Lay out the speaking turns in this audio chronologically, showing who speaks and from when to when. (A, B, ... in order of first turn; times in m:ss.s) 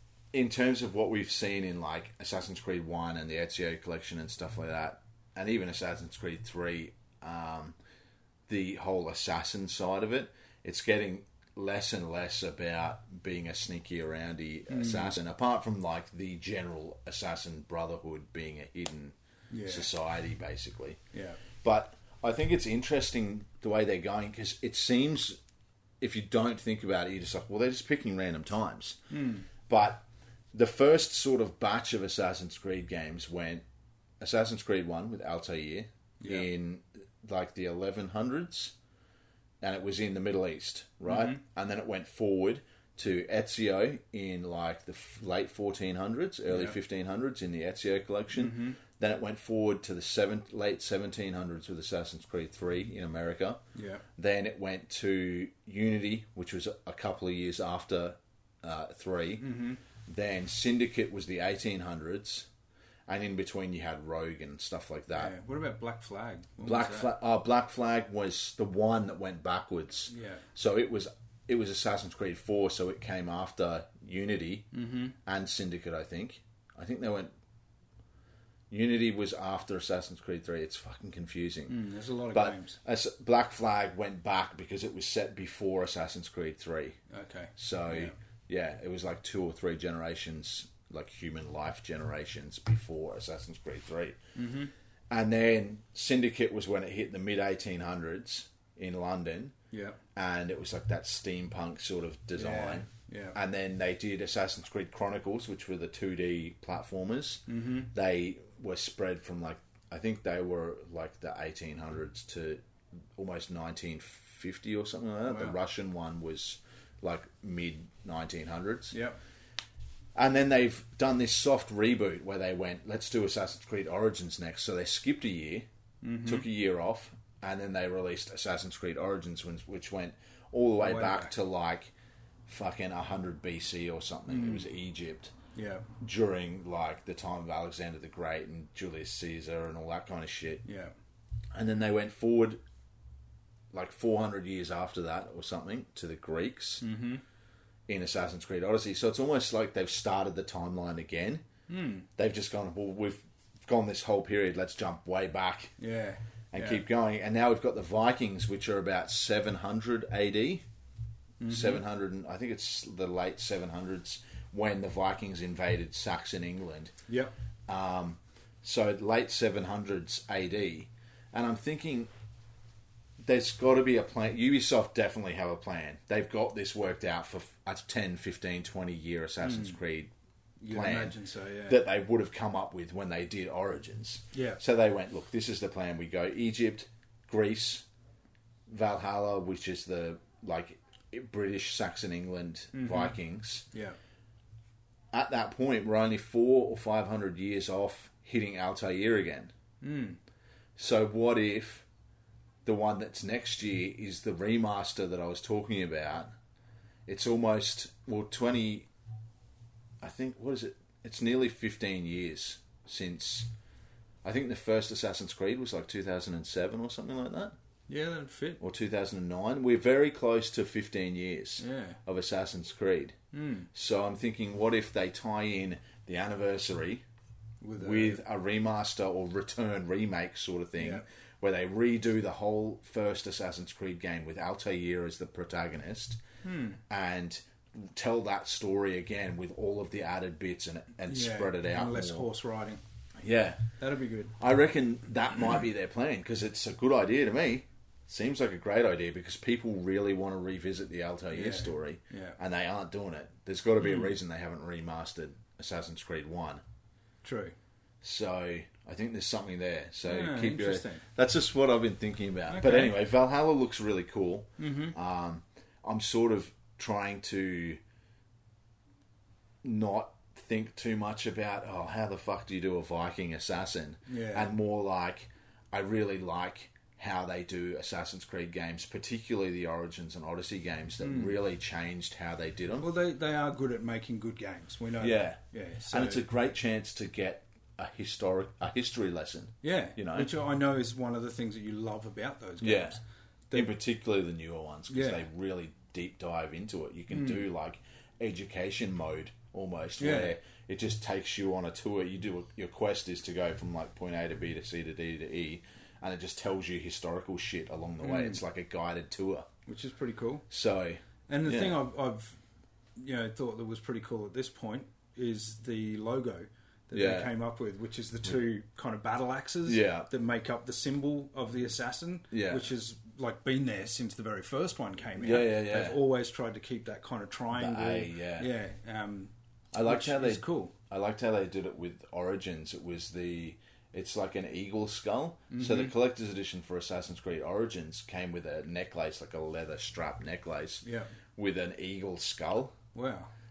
0:00.3-0:07.8 A
0:08.5-0:19.2 A
0:14.7-0:15.1 B
0:19.5-0:19.9 B
0:19.7-0:21.0 A
0:21.1-0:21.4 B
0:21.6-0:25.4 A
0:26.0-0:29.0 A
0:29.1-0:29.5 B
0:29.7-0:33.6 A
0:34.2-0:38.8 A
0:36.2-0:36.5 B
0:39.6-0:53.6 A
0:41.1-0:41.4 B
0:46.5-0:46.8 B
0:48.3-0:48.8 B
0:53.8-0:54.0 B
0:54.2-0:59.5 A
0:59.4-0:59.8 B
1:00.1-1:02.5 A
1:03.1-1:05.4 A
1:05.1-1:07.1 B
1:06.6-1:14.7 A
1:10.1-1:10.4 B
1:14.7-1:15.2 B
1:15.2-1:17.3 A
1:18.7-1:27.0 A
1:21.7-1:22.8 B
1:27.1-1:28.2 B
1:27.6-1:34.2 A
1:34.4-1:34.7 B
1:35.1-1:39.6 A
1:39.7-1:40.0 B
1:40.2-1:52.6 A
1:42.4-1:43.4 B
1:47.5-1:47.9 B
1:53.2-1:59.0 A
1:55.3-1:55.6 B
1:58.9-1:59.2 B
2:00.2-2:05.7 A
2:06.0-2:06.5 B
2:06.2-2:11.9 A
2:10.8-2:11.4 B
2:12.5-2:15.3 A
2:14.3-2:14.7 B
2:15.6-2:15.9 B
2:16.0-2:20.6 A
2:20.6-2:20.9 B
2:21.5-2:22.6 A
2:23.7-2:26.9 A
2:26.8-2:27.2 B
2:27.9-2:31.5 A
2:31.7-2:32.1 B
2:32.2-2:35.7 A
2:35.8-2:36.8 B
2:36.5-2:40.6 A
2:41.4-2:41.8 B
2:41.5-2:46.9 A
2:47.1-2:47.3 B
2:47.7-2:52.1 A
2:53.2-3:00.1 A
2:59.4-2:59.8 B
3:00.6-3:01.8 B
3:00.7-3:07.9 A
3:04.3-3:04.6 B
3:08.7-3:13.7 A
3:12.7-3:13.2 B
3:15.1-3:19.5 A
3:19.8-3:20.2 B
3:20.8-3:21.9 A
3:22.6-3:26.3 A
3:27.1-3:28.9 A
3:30.0-3:33.5 A
3:34.2-3:37.5 A
3:37.9-3:38.6 B
3:38.6-3:43.2 A
3:41.6-3:42.0 B
3:43.3-3:43.7 B
3:43.7-3:47.0 A
3:47.6-3:48.2 B
3:47.8-3:56.2 A
3:50.8-3:51.0 B
3:56.4-3:56.8 B
3:56.9-4:02.3 A
4:01.1-4:02.8 B
4:03.2-4:03.6 A
4:03.8-4:04.3 B
4:04.4-4:16.6 A
4:11.3-4:12.4 B
4:13.8-4:14.1 B
4:17.2-4:17.6 B
4:18.0-4:27.8 A
4:20.1-4:21.0 B
4:22.5-4:23.0 B
4:24.6-4:25.0 B
4:29.6-4:42.9 A
4:34.1-4:34.5 B
4:41.0-4:41.4 B
4:42.8-4:46.3 B
4:45.0-4:50.3 A
4:49.6-4:53.0 B
4:52.6-4:53.0 A
4:53.5-5:09.5 A
4:54.9-4:55.2 B
4:57.1-4:57.5 B
5:00.0-5:00.4 B
5:08.0-5:08.4 B
5:09.7-5:10.4 B
5:10.5-5:11.8 A
5:11.3-5:12.4 B
5:13.0-5:30.7 B
5:16.9-5:17.3 A
5:19.7-5:20.1 A
5:22.3-5:22.7 A
5:25.2-5:26.0 A
5:27.5-5:28.5 A
5:29.7-5:40.8 A
5:35.5-5:35.9 B
5:40.8-5:41.1 B
5:41.4-5:42.8 A
5:42.9-5:43.3 B